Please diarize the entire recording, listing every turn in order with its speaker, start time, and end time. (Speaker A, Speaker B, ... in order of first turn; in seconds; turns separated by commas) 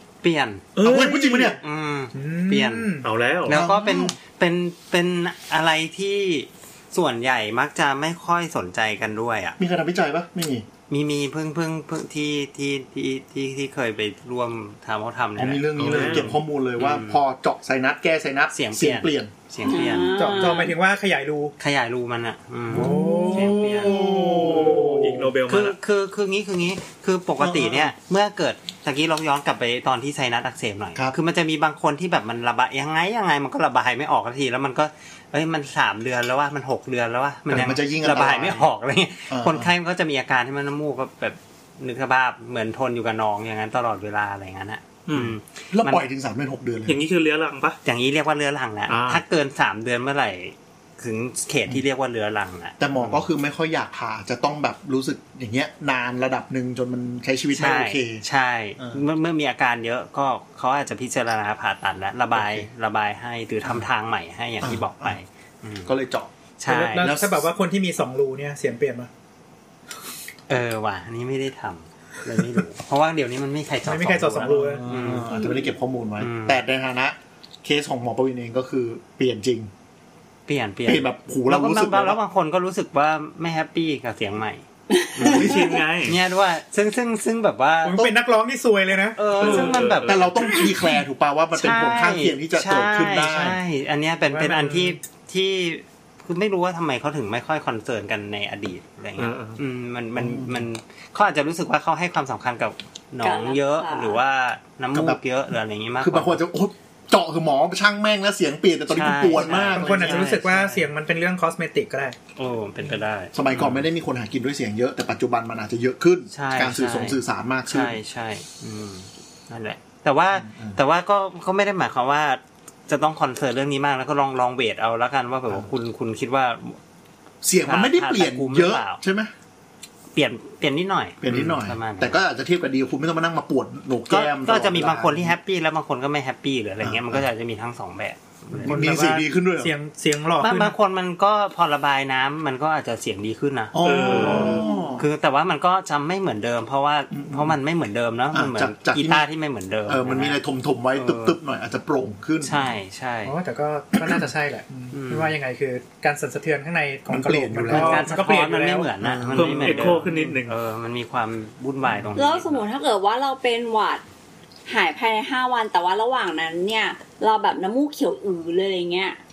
Speaker A: 0.2-0.7, Speaker B: 0.7-1.6, Speaker C: 0.8-1.6, Speaker A: 1.6-2.9, Speaker D: 2.1-3.1, Speaker B: 3.0-3.6, Speaker A: 3.5-9.6, Speaker C: 3.5-4.2, Speaker C: 9.6-10.7, Speaker A: 10.9-17.2, Speaker C: 15.4-19.3, Speaker B: 15.8-16.3, Speaker A: 18.5-20.4, Speaker E: 19.6-20.8, Speaker D: 20.2-21.5, Speaker A: 21.6-24.1, Speaker C: 22.7-25.3, Speaker D: 22.7-23.5, Speaker E: 22.8-23.5, Speaker B: 24.2-25.8, Speaker A: 25.5-46.0, Speaker C: 27.4-27.9, Speaker C: 37.5-38.7, Speaker C: 39.3-39.7, Speaker B: 45.1-45.3, Speaker C: 45.7-47.0, Speaker B: 46.9-47.8, Speaker A: 47.8-53.2, Speaker B: 48.9-49.2, Speaker C: 52.8-58.2, Speaker A: 57.5-65.9, Speaker C: 62.3-62.7, Speaker C: 64.6-65.2, Speaker C: 65.8-66.3, Speaker A: 66.6-67.1, Speaker D: 66.7-69.1, Speaker C: 66.9-67.5, Speaker A: 70.5-75.3, Speaker D: 73.8-74.8, Speaker C: 74.5-79.7, Speaker A: 76.2-76.6, Speaker A: 80.5-88.0, Speaker C: 80.8-82.2, Speaker E: 85.0-85.8, Speaker B: 85.2-86.2, Speaker D: 87.8-89.2, Speaker A: 89.2-90.3, Speaker B: 89.4-90.3, Speaker C: 89.5-93.6, Speaker A: 91.5-106.4, Speaker D: 94.3-95.0, Speaker B: 99.2-99.6, Speaker C: 100.2-100.6, Speaker E: 103.2-104.2, Speaker C: 104.9-105.2, Speaker C: 106.0-110.3, Speaker A: 108.9-110.9, Speaker D: 109.4-112.2, Speaker A: 112.3-113.8, Speaker C: 113.3-118.0, Speaker A: 116.3-126.8, Speaker C: 120.3-120.8, Speaker C: 127.4-129.3, Speaker A: 127.6-129.0, Speaker A: 130.1-132.2, Speaker C: 131.2-135.3, Speaker A: 134.1-138.8, Speaker C: 136.8-137.2, Speaker C: 138.6-139.7, Speaker D: 138.6-140.7, Speaker A: 140.4-150.4, Speaker C: 143.7-145.1, Speaker B: 143.8-144.6, Speaker D: 144.2-144.6, Speaker C: 147.1-147.6, Speaker C: 148.3-149.3, Speaker C: 149.9-152.7, Speaker A: 150.9-151.4, Speaker A: 152.4-153.3, Speaker D: 153.2-158.9, Speaker C: 154.0-154.2, Speaker A: 154.9-155.3, Speaker C: 157.1-158.1, Speaker A: 157.7-162.7, Speaker C: 159.0-160.2, Speaker B: 159.3-160.5, Speaker E: 162.2-164.0, Speaker E: 164.7-169.2